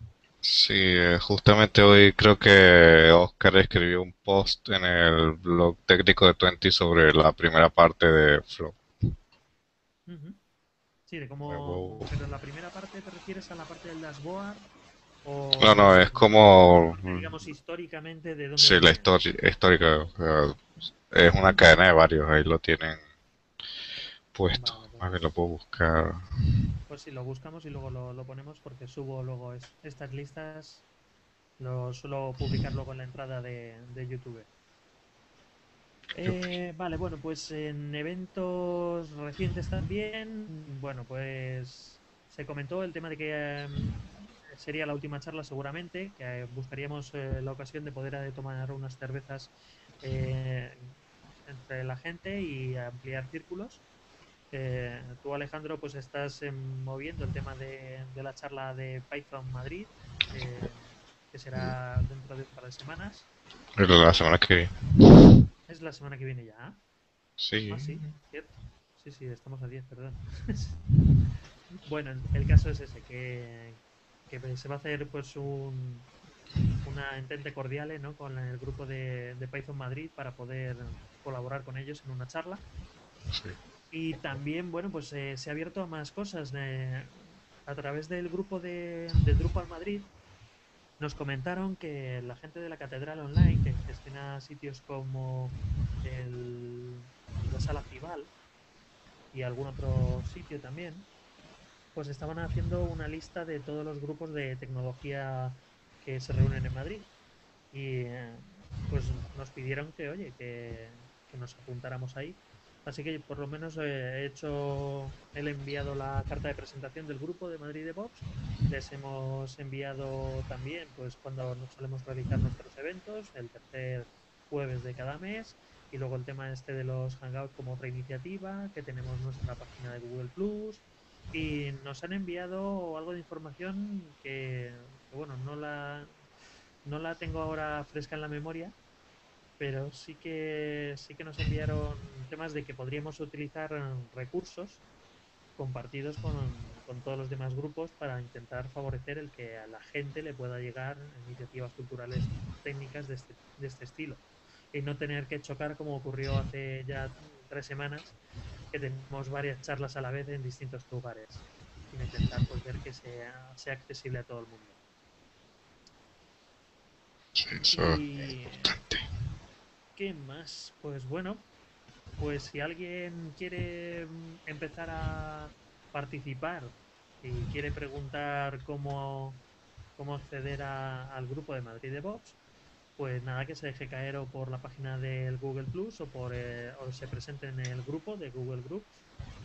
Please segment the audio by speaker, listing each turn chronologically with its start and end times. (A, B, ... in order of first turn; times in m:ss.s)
0:00.4-0:08.8 A
0:10.1-0:10.4 B
0:11.1-0:14.7 B
0:11.5-0:12.1 A
0:15.2-0:19.1 B
0:15.6-0:17.3 A
0:18.6-0:23.0 A
0:24.3-0:26.2 A
0:24.5-0:25.1 B
0:26.9-0:30.8 B
0:31.6-0:34.5 B
0:36.1-0:53.8 B
0:54.5-1:03.3 B
1:03.8-1:05.2 A
1:05.7-1:06.8 B
1:07.4-1:08.1 A
1:07.7-1:10.8 B
1:11.8-1:16.1 B
1:16.8-1:22.6 B
1:23.3-1:23.6 A
1:23.9-1:30.1 B
1:31.0-1:38.3 B
1:39.3-1:41.1 B
1:41.9-1:47.1 B
1:47.7-2:16.2 B
2:16.8-2:18.8 B
2:19.6-2:24.8 B
2:25.6-2:34.2 B
2:34.7-2:38.2 B
2:38.7-2:44.8 B
2:47.3-2:48.0 A
2:47.6-2:48.8 B
2:48.6-2:49.0 A
2:50.0-2:51.4 B
2:52.2-2:59.4 B
3:00.0-3:02.4 B
3:03.0-3:08.9 B